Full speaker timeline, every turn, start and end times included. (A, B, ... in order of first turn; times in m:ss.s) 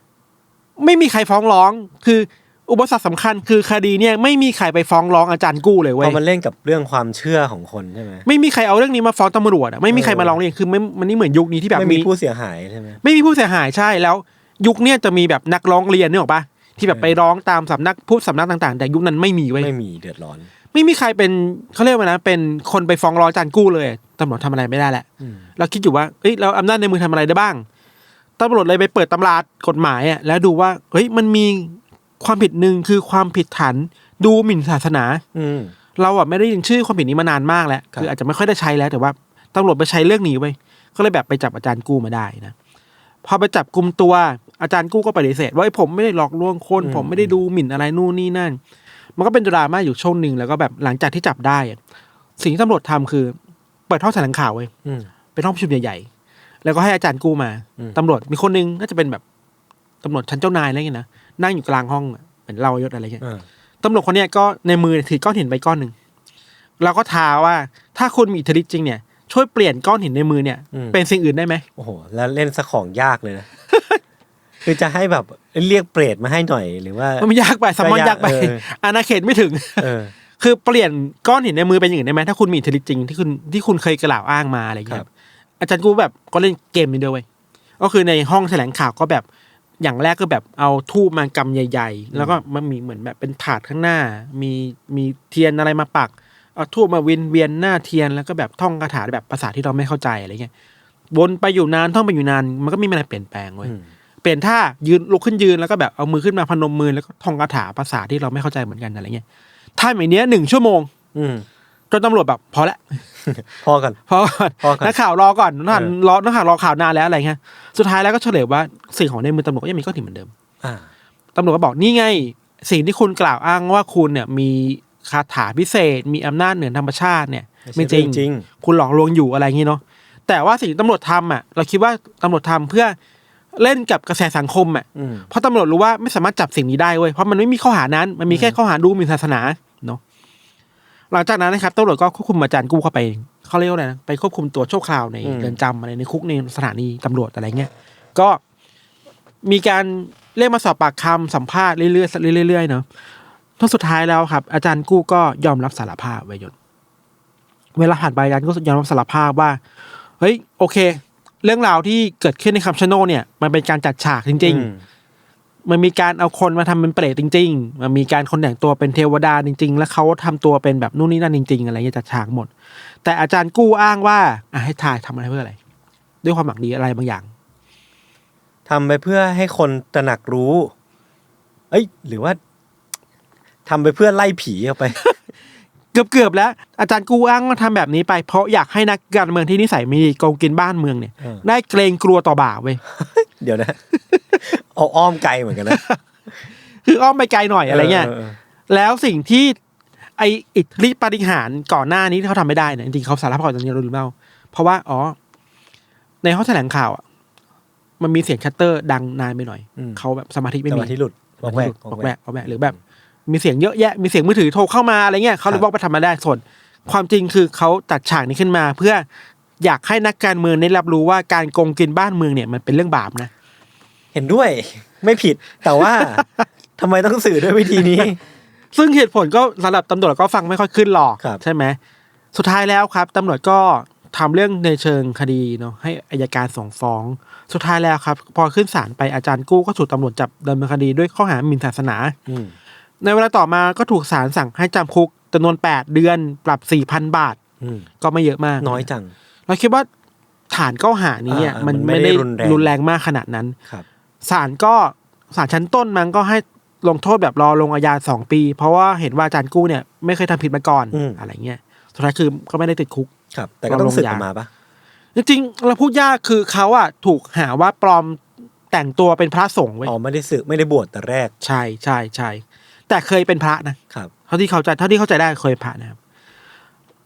0:00.8-0:06.2 A
0:06.0-0:08.3 B
0:08.2-0:12.1 A
0:09.9-0:10.4 B
0:11.7-0:13.0 B
0:13.0-0:19.7 A
0:16.9-0:17.2 B
0:19.6-0:20.5 B
0:20.7-0:25.0 A
0:25.2-0:25.5 B
0:25.6-0:27.6 A
0:28.4-0:35.2 A
0:35.3-0:35.7 B
0:36.0-0:42.5 A
0:43.2-0:48.6 A
0:46.8-0:47.4 B
0:49.2-0:51.8 A
0:52.4-0:53.4 A
0:53.9-0:54.7 A
0:54.8-0:55.1 B
0:55.3-0:56.1 A
0:56.6-0:59.2 A
1:00.0-1:03.2 A
1:03.2-1:03.4 B
1:03.8-1:05.9 A
1:06.8-1:11.6 A
1:10.7-1:11.0 B
1:11.8-1:13.5 B
1:13.7-1:14.0 A
1:14.6-1:18.6 B
1:17.2-1:25.1 A
1:19.8-1:20.1 B
1:25.6-1:27.2 A
1:27.8-1:29.2 A
1:29.8-1:40.5 A
1:32.1-1:32.4 B
1:41.1-1:49.2 A
1:49.8-1:50.9 A
1:51.1-1:51.4 B
1:51.9-1:53.0 A
1:53.2-1:54.0 B
1:54.1-2:00.3 A
1:54.6-1:54.9 B
1:55.7-1:55.9 B
2:00.6-2:00.9 B
2:01.3-2:13.0 A
2:07.6-2:08.4 B
2:13.5-2:20.0 A
2:14.9-2:15.3 B
2:18.3-2:18.6 B
2:21.1-2:28.4 A
2:25.2-2:25.6 B
2:29.4-2:32.8 A
2:33.6-2:36.5 A
2:37.8-2:39.6 A
2:40.2-2:44.7 A
2:44.4-2:44.8 B
2:45.6-2:52.5 A
2:53.0-2:55.6 A
2:56.2-2:57.3 A
2:58.7-3:00.7 B
3:01.7-3:02.4 B
3:03.6-3:05.0 B
3:05.9-3:12.8 A
3:12.9-3:13.8 B
3:13.9-3:14.2 A
3:14.4-3:15.8 B
3:15.7-3:16.0 A
3:16.5-3:18.1 A
3:17.7-3:18.4 B
3:18.7-3:19.5 A
3:20.2-3:25.2 A
3:26.2-3:27.0 A
3:28.0-3:32.8 A
3:29.8-3:30.0 B
3:30.7-3:32.8 B
3:33.3-3:39.0 A
3:39.6-3:43.3 A
3:44.1-3:46.2 B
3:45.8-3:46.4 A
3:46.8-3:48.2 B
3:48.7-3:51.8 A
3:52.3-4:02.1 A
4:02.2-4:02.5 B
4:03.0-4:07.4 A
4:07.6-4:07.9 B
4:08.0-4:08.9 A
4:08.6-4:09.1 B
4:09.5-4:09.9 A
4:10.5-4:13.6 A
4:11.3-4:12.7 B
4:14.2-4:23.1 A
4:20.9-4:21.2 B
4:23.3-4:24.5 B
4:23.7-4:24.3 A
4:25.1-4:29.9 A
4:29.8-4:31.3 B
4:31.4-4:33.8 A
4:34.3-4:36.0 A